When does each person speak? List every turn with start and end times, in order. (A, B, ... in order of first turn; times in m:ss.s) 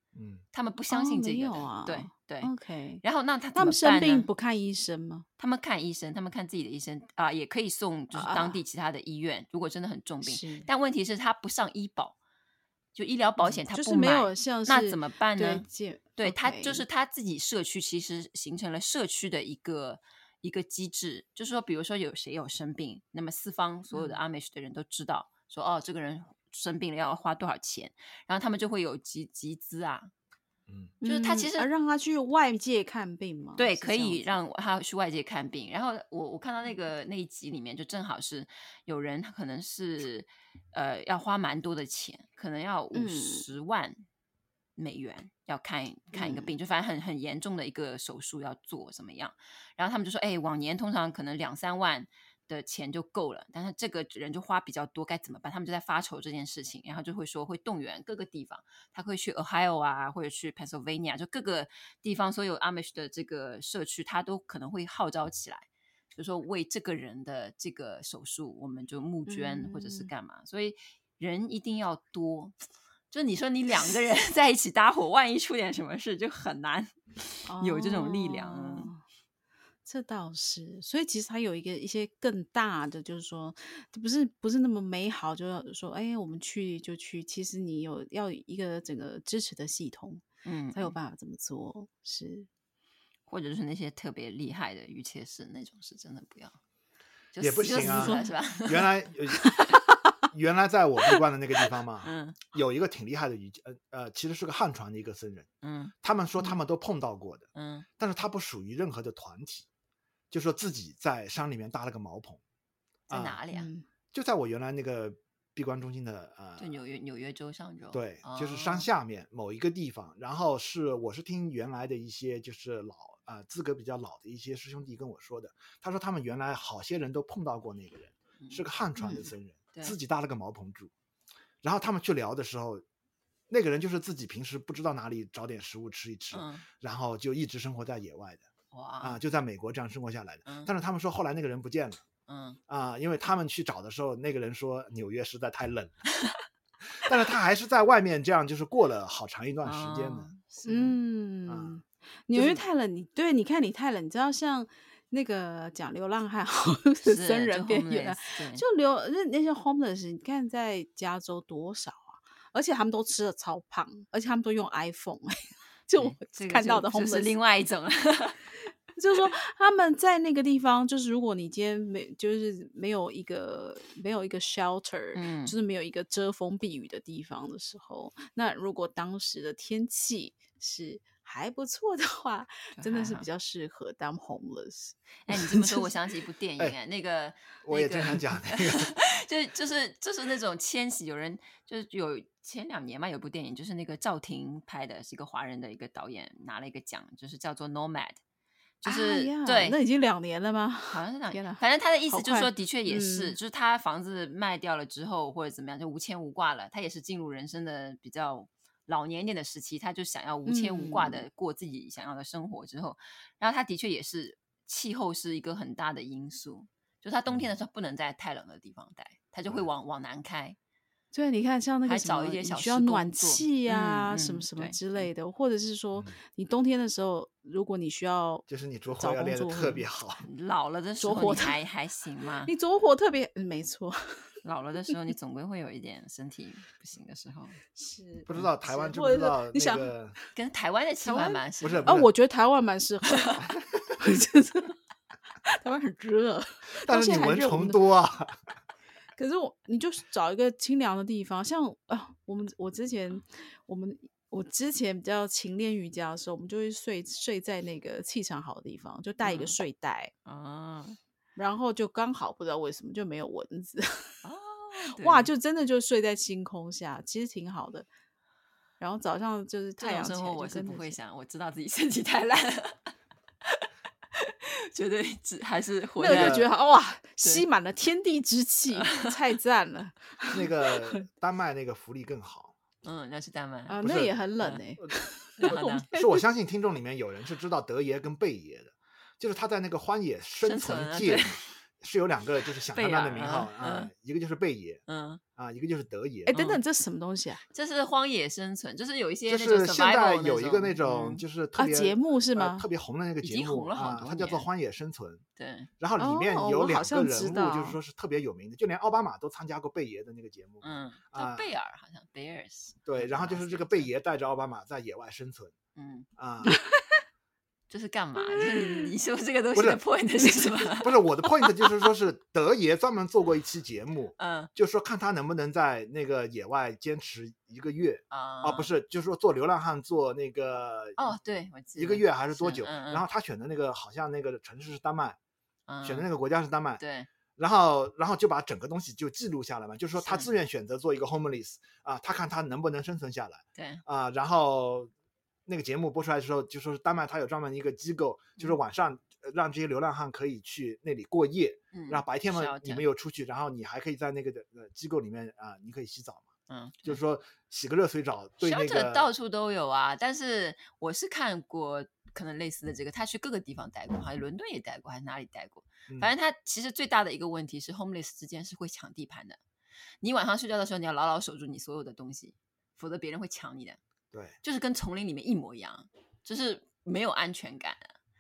0:00.1-0:00.4 A
0:00.5-0:02.5 B
0:00.9-0:03.0 C
0:03.0-0:04.3 B
0:03.6-0:05.3 C
0:05.4-0:12.2 B
0:08.1-0:08.6 C
0:10.2-0:10.7 C
0:13.0-0:15.6 B
0:13.4-0:16.8 C
0:16.2-0:30.1 B
0:23.9-0:24.2 C
0:30.7-0:30.9 A
0:31.0-0:34.3 C
0:31.0-0:31.7 B
0:33.6-0:44.0 B
0:42.9-0:43.5 C
0:44.8-1:12.6 B
0:46.1-0:46.5 C
1:09.3-1:10.1 C
1:13.1-1:18.9 B
1:17.5-1:19.0 C
1:19.9-1:32.5 C
1:30.4-1:31.0 B
1:33.3-1:36.6 B
1:37.3-1:38.9 B
1:37.4-1:39.5 A
1:37.7-1:38.3 C
1:39.4-1:39.9 C
1:40.3-1:45.5 A
1:42.0-1:42.4 B
1:45.6-1:45.9 B
1:46.0-1:47.5 A
1:47.6-1:47.9 B
1:48.0-1:49.7 A
1:50.3-1:52.4 A
1:53.1-1:53.4 A
1:53.1-1:53.7 B
1:53.5-1:53.8 C
1:54.1-1:56.8 A
1:56.6-1:58.9 B
1:57.9-2:10.9 A
2:08.4-2:08.6 B
2:09.0-2:09.3 C
2:11.6-2:12.8 A
2:13.5-2:18.5 A
2:16.3-2:16.7 B
2:18.7-2:19.2 B
2:19.0-2:22.0 A
2:20.5-2:20.7 B
2:22.3-2:22.6 B
2:22.7-2:26.0 A
2:27.0-2:30.3 A
2:29.6-2:31.0 B
2:30.7-2:47.4 C
2:31.5-2:31.8 A
2:32.3-2:32.6 A
2:37.0-2:38.6 B
2:46.0-2:48.5 B
2:49.0-3:05.9 C
2:55.1-2:55.6 B
3:02.8-3:03.3 B
3:05.3-3:18.2 B
3:07.6-3:08.9 A
3:18.8-3:19.8 B
3:18.8-3:23.4 C
3:20.9-3:40.6 B
3:30.5-3:31.2 C
3:41.1-3:49.9 C
3:41.8-3:45.1 B
3:48.5-3:50.2 A
3:50.2-3:52.5 B
3:51.0-3:51.6 C
3:52.4-3:54.3 C
3:54.4-3:57.6 B
3:57.8-3:59.9 C
3:58.3-4:00.2 A
4:00.3-4:01.9 B
4:01.0-4:04.8 C
4:01.6-4:02.1 A
4:03.5-4:03.9 A
4:05.4-4:07.8 C
4:06.8-4:08.4 A
4:09.2-4:20.1 C
4:19.2-4:19.6 B
4:20.2-4:21.0 B
4:21.4-4:24.2 C
4:24.2-4:25.3 B
4:24.9-4:27.9 C
4:28.8-4:31.0 C
4:29.8-4:32.9 B
4:34.2-4:36.5 B
4:36.0-4:40.9 C
4:36.1-4:36.5 A
4:38.8-4:39.1 B
4:40.3-4:42.5 A
4:42.8-4:43.8 B
4:43.7-4:46.2 C
4:43.8-4:44.2 A
4:45.4-4:45.9 B
4:45.5-4:54.8 A
4:50.4-4:51.4 B
4:52.7-4:53.9 B
4:54.9-4:55.2 B
4:55.4-4:56.3 A
4:56.3-4:57.4 C
4:56.3-4:56.6 B
4:57.5-5:01.2 B
4:59.3-5:05.2 A
5:01.6-5:02.7 C
5:03.2-5:04.5 B
5:05.4-5:05.7 B
5:05.8-5:11.5 A
5:06.0-5:07.8 C
5:10.6-5:13.9 B
5:12.8-5:15.6 A
5:15.8-5:16.1 B
5:16.2-5:16.6 A
5:17.7-5:21.0 B
5:18.4-5:18.9 C
5:19.6-5:19.8 A
5:20.7-5:31.1 A
5:24.2-5:24.5 B
5:28.1-5:28.7 B
5:31.0-5:33.0 B
5:31.8-5:35.2 A
5:35.7-5:36.1 B
5:35.8-5:36.8 A
5:36.8-5:37.1 B
5:37.4-5:44.9 A
5:40.0-5:40.3 B
5:43.6-5:43.8 B
5:45.5-5:56.3 A
5:51.7-5:52.9 B
5:56.5-5:57.0 B
5:56.8-5:59.1 A
5:58.4-6:09.4 B
6:10.0-6:13.8 B
6:14.4-6:17.9 B